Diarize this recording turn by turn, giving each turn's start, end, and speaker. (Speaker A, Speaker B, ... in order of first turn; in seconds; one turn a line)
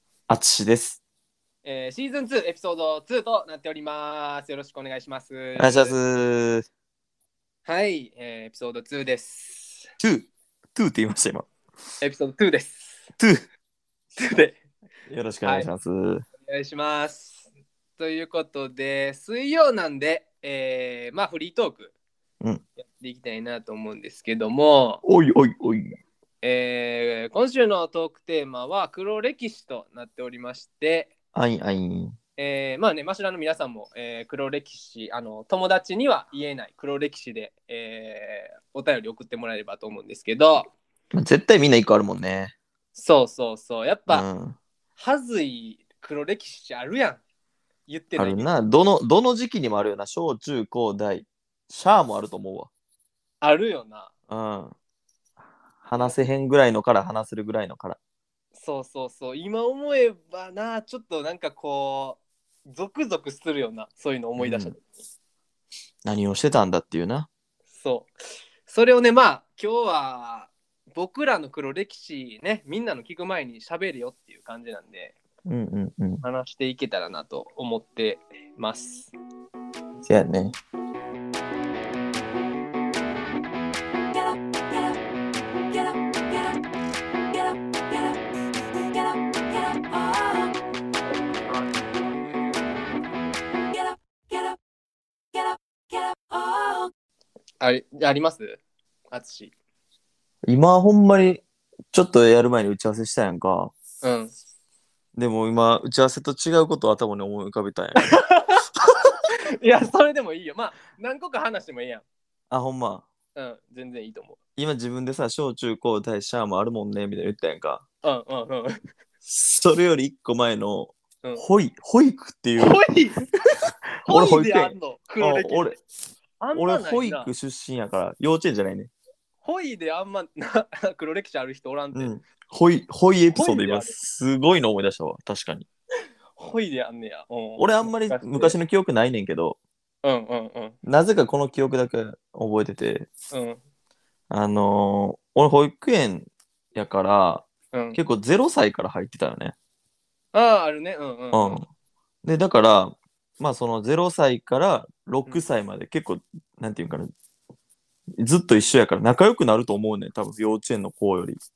Speaker A: 0.3-1.0
Speaker B: 1.6-6.0
Speaker A: 5.6-6.7
Speaker B: 7.7-9.9
Speaker A: 10.0-11.5
Speaker B: 12.0-13.1
Speaker A: 13.2-13.4
Speaker B: 14.2-14.6
Speaker A: 15.1-16.2
Speaker B: 16.4-17.4
Speaker B: 18.0-21.9
Speaker B: 22.8-25.0
Speaker A: 25.0-26.0
Speaker B: 26.4-31.1
Speaker A: 31.3-32.2
Speaker B: 32.4-40.7
Speaker A: 41.1-42.5
Speaker B: 43.0-44.3
Speaker A: 44.1-44.6
Speaker B: 45.0-47.2
Speaker B: 47.9-48.5
Speaker A: 48.2-52.7
Speaker B: 53.4-54.1
Speaker A: 54.3-54.8
Speaker A: 55.8-58.0
Speaker B: 56.0-56.2
Speaker B: 58.5-64.8
Speaker A: 64.4-64.8
Speaker A: 66.0-67.3
Speaker B: 67.7-68.1
Speaker B: 68.7-75.2
Speaker A: 75.5-76.2
Speaker B: 76.2-79.1
Speaker A: 80.0-80.6
Speaker B: 97.6-99.5
Speaker A: 100.5-103.7
Speaker B: 104.0-104.3
Speaker A: 105.2-108.2
Speaker B: 108.1-108.6
Speaker B: 109.6-112.0
Speaker A: 112.5-113.1
Speaker B: 113.3-114.4
Speaker A: 114.6-117.8
Speaker B: 118.0-118.8
Speaker A: 119.2-122.8
Speaker B: 122.6-123.3
Speaker A: 124.0-125.8
Speaker B: 124.0-125.7
Speaker B: 126.4-127.3
Speaker A: 126.5-128.9
Speaker B: 129.4-132.1
Speaker A: 131.9-135.7
Speaker B: 133.3-134.0
Speaker B: 136.4-138.6
Speaker A: 137.6-139.6
Speaker B: 140.0-140.8
Speaker A: 140.8-143.1
Speaker B: 143.3-143.6
Speaker A: 144.3-149.6
Speaker B: 147.7-148.0
Speaker B: 150.3-151.6
Speaker A: 151.3-151.7
Speaker A: 152.2-157.1
Speaker A: 158.2-161.4